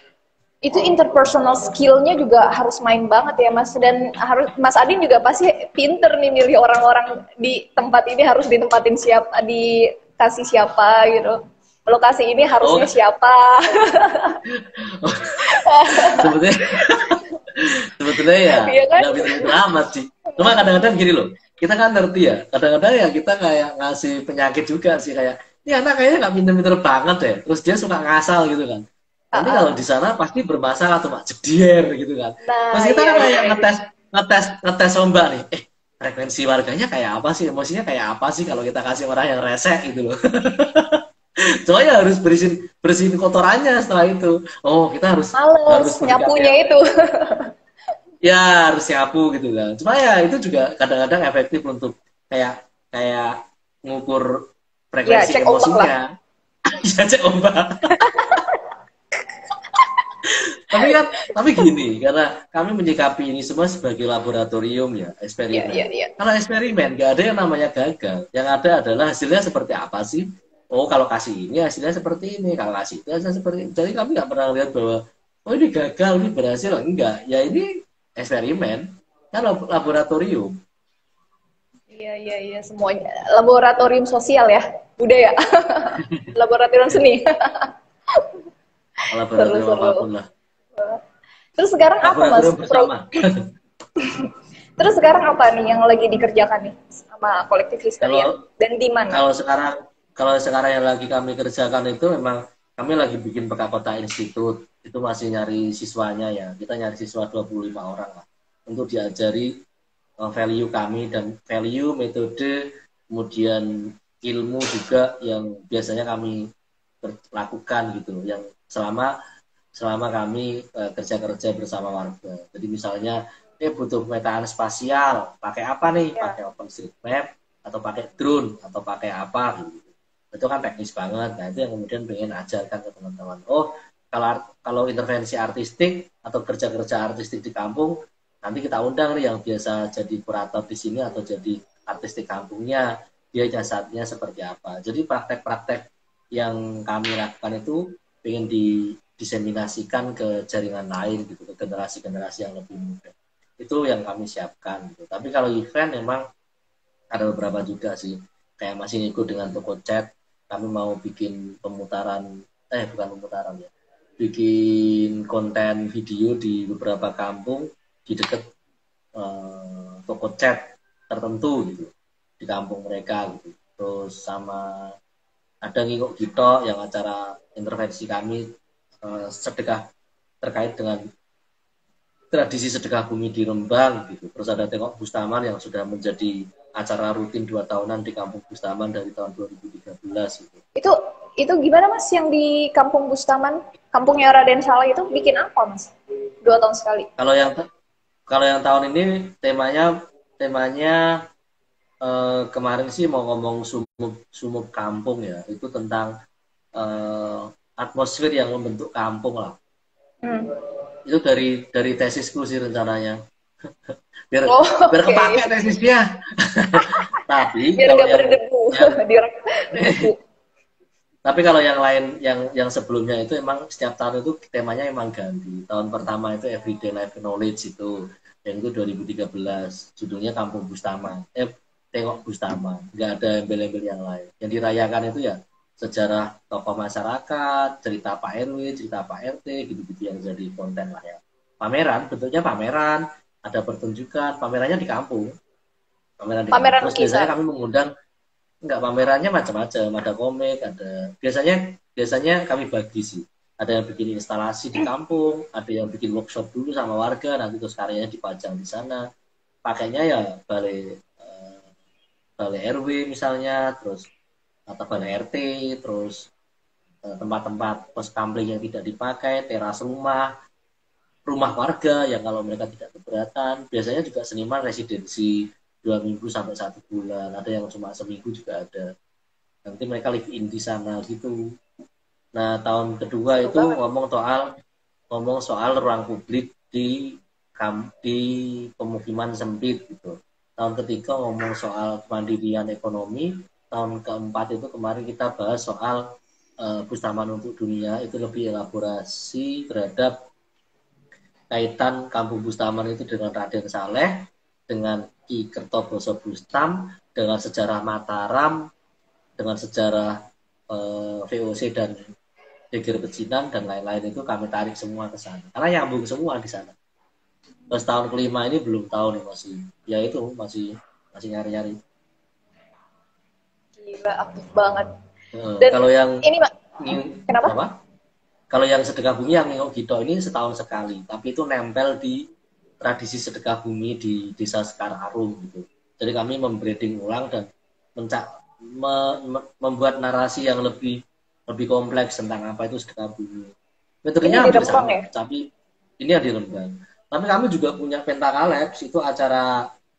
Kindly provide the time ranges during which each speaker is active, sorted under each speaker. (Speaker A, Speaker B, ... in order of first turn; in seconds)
Speaker A: 0.6-14.4, 15.4-17.2, 18.4-19.6, 20.3-20.9, 29.3-29.8, 32.4-33.7, 45.4-47.5, 55.1-55.9, 58.0-58.6, 65.5-66.1, 81.9-88.3, 89.4-90.0, 91.6-92.9, 94.0-99.2, 190.7-197.1, 210.2-210.5, 214.5-215.7, 217.8-220.2, 246.5-247.3, 283.3-283.8, 323.8-324.9, 325.6-327.5, 344.2-345.0
Speaker B: 12.6-12.9, 14.5-15.4, 15.9-28.8, 29.4-41.0, 41.6-46.5, 48.2-53.3, 53.9-54.3, 54.9-56.0, 56.7-57.9, 60.2-77.7, 78.2-80.5, 89.1-90.2, 92.0-93.4, 98.0-98.4, 99.1-109.5, 110.2-112.5, 113.1-113.7, 114.2-116.4, 117.0-119.1, 119.7-156.2, 157.1-168.4, 169.2-174.9, 175.6-178.4, 179.0-179.8, 180.4-181.0, 182.3-190.6, 197.2-197.6, 198.3-201.0, 202.0-206.1, 206.8-209.6, 211.1-213.2, 214.3-219.0, 219.8-220.1, 221.2-227.9, 228.4-245.3, 246.2-247.9, 248.7-259.0, 259.6-261.6, 262.4-264.1, 264.7-266.3, 267.1-270.3, 271.3-278.9, 279.6-281.3, 282.4-284.5, 285.1-287.0, 287.6-296.0, 296.6-300.1, 301.5-308.6, 309.4-310.2, 310.7-311.9, 312.7-316.7, 317.7-321.8, 325.3-326.2, 326.8-327.7, 328.5-332.2, 332.8-337.4, 338.0-338.2, 338.8-343.5, 344.0-345.4, 346.0-349.5